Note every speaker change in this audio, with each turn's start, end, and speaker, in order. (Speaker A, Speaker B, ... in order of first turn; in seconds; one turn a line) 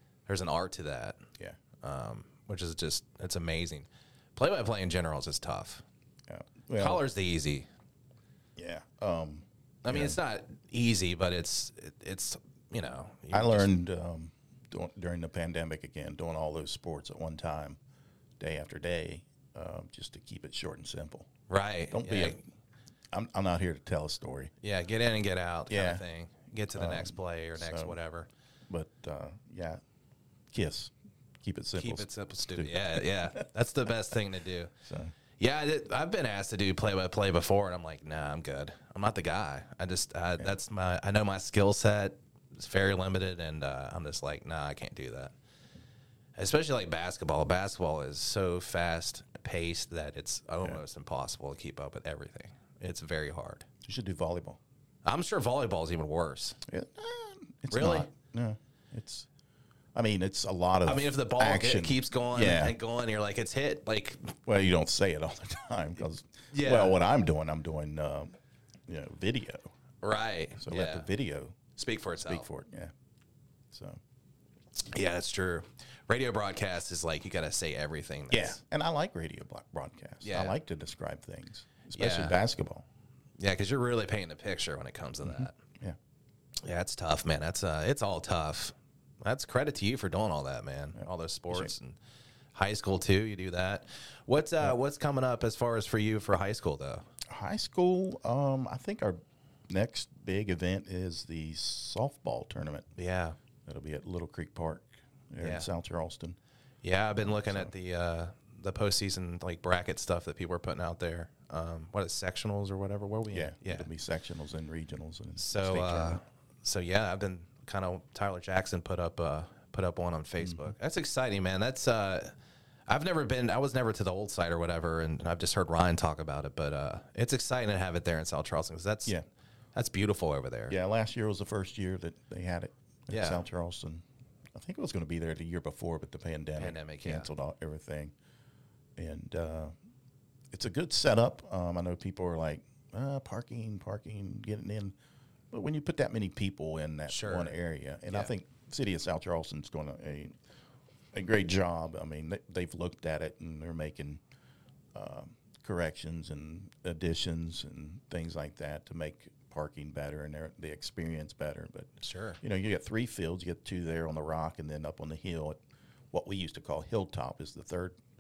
Speaker A: 0.3-1.2
Speaker A: 1.8-5.8
Speaker B: 6.3-7.0
Speaker A: 6.8-7.7
Speaker B: 8.6-10.2
Speaker A: 9.8-13.7
Speaker B: 13.3-17.8
Speaker B: 18.4-21.3
Speaker A: 21.5-22.4
Speaker B: 21.9-22.4
Speaker B: 23.1-24.5
Speaker A: 24.6-28.3
Speaker B: 25.7-26.0
Speaker B: 26.7-28.0
Speaker B: 28.7-29.8
Speaker B: 30.5-33.4
Speaker A: 31.8-34.7
Speaker B: 34.9-35.1
Speaker A: 35.4-45.3
Speaker A: 46.4-53.7
Speaker B: 53.8-54.6
Speaker A: 55.0-56.6
Speaker B: 56.7-59.3
Speaker A: 57.7-58.1
Speaker B: 60.0-62.8
Speaker A: 60.9-64.4
Speaker B: 64.5-68.3
Speaker A: 66.5-67.0
Speaker B: 68.9-69.7
Speaker A: 70.0-71.1
Speaker B: 70.6-71.6
Speaker A: 71.8-72.5
Speaker B: 72.3-72.9
Speaker B: 73.7-74.0
Speaker A: 74.8-78.6
Speaker B: 78.3-82.8
Speaker A: 80.2-80.6
Speaker A: 82.0-82.4
Speaker A: 83.4-85.6
Speaker B: 85.2-86.0
Speaker A: 86.6-92.0
Speaker B: 91.0-91.7
Speaker A: 92.5-97.0
Speaker B: 97.3-99.2
Speaker B: 99.7-102.9
Speaker A: 103.0-103.4
Speaker B: 103.7-106.4
Speaker A: 105.4-105.7
Speaker A: 106.8-113.9
Speaker B: 107.4-107.7
Speaker B: 113.3-116.2
Speaker A: 115.4-122.3
Speaker B: 120.4-120.7
Speaker A: 122.9-129.2
Speaker A: 129.8-130.8
Speaker B: 130.7-134.0
Speaker A: 133.1-133.4
Speaker B: 134.6-138.1
Speaker A: 136.6-137.3
Speaker B: 139.0-139.7
Speaker B: 140.5-144.9
Speaker B: 145.5-150.4
Speaker A: 147.1-147.6
Speaker B: 151.1-154.2
Speaker B: 154.9-161.9
Speaker A: 162.0-162.4
Speaker B: 162.4-165.6
Speaker B: 166.1-168.0